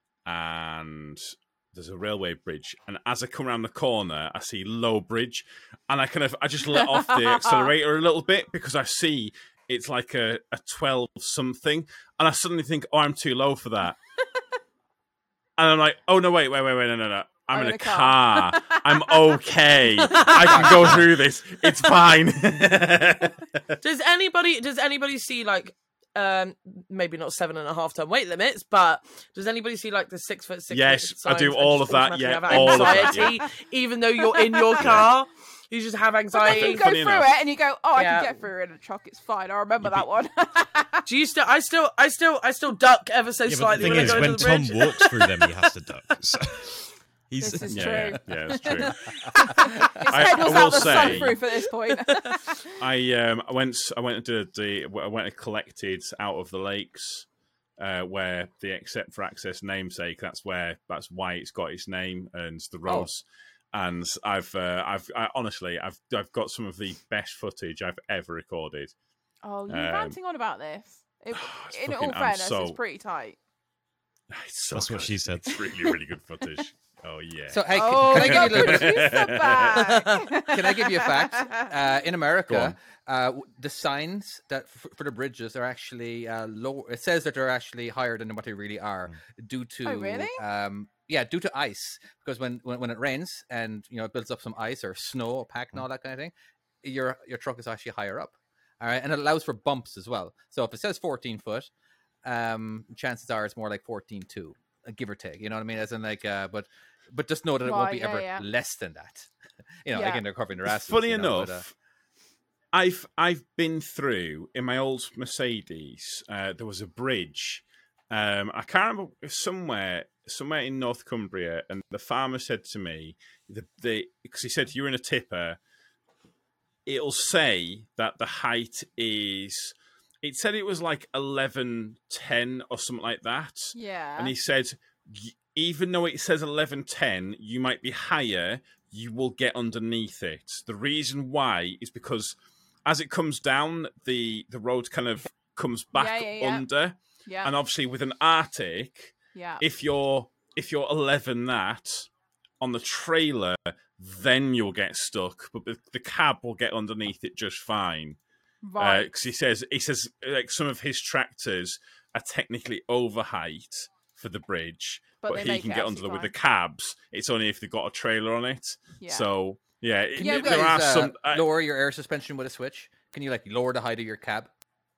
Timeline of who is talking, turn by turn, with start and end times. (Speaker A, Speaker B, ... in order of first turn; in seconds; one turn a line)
Speaker A: 0.2-13.9
Speaker B: 6.7-7.7
Speaker A: 15.6-23.8
Speaker B: 17.5-19.4
Speaker C: 20.0-21.0
Speaker D: 20.5-21.0
Speaker C: 23.8-36.8
Speaker A: 30.7-33.4
Speaker B: 32.5-33.4
Speaker B: 34.2-35.0
Speaker A: 34.8-35.1
Speaker B: 36.3-41.1
Speaker A: 36.4-37.3
Speaker C: 37.9-38.4
Speaker C: 41.1-45.5
Speaker E: 43.5-48.2
Speaker B: 47.4-52.7
Speaker A: 47.7-49.0
Speaker A: 50.1-51.4
Speaker A: 52.8-57.2
Speaker A: 57.8-68.9
Speaker B: 69.4-73.4
Speaker A: 69.7-70.2
Speaker A: 71.3-72.8
Speaker A: 74.3-79.8
Speaker E: 74.7-75.6
Speaker D: 77.5-79.2
Speaker B: 77.7-81.8
Speaker C: 79.9-80.2
Speaker D: 80.5-96.3
Speaker A: 82.5-82.7
Speaker B: 89.8-90.4
Speaker D: 96.8-101.7
Speaker D: 102.2-109.3
Speaker B: 107.6-108.5
Speaker D: 109.8-111.6
Speaker B: 109.9-110.2
Speaker A: 110.7-111.7
Speaker A: 112.7-125.6
Speaker A: 126.8-152.1
Speaker B: 133.7-134.3
Speaker B: 145.9-146.7
Speaker B: 147.2-147.5
Speaker B: 149.3-149.6
Speaker A: 152.6-158.2
Speaker B: 158.6-159.1
Speaker A: 158.8-171.4
Speaker B: 165.2-166.3
Speaker B: 169.0-169.3
Speaker B: 170.2-170.9
Speaker D: 170.2-174.5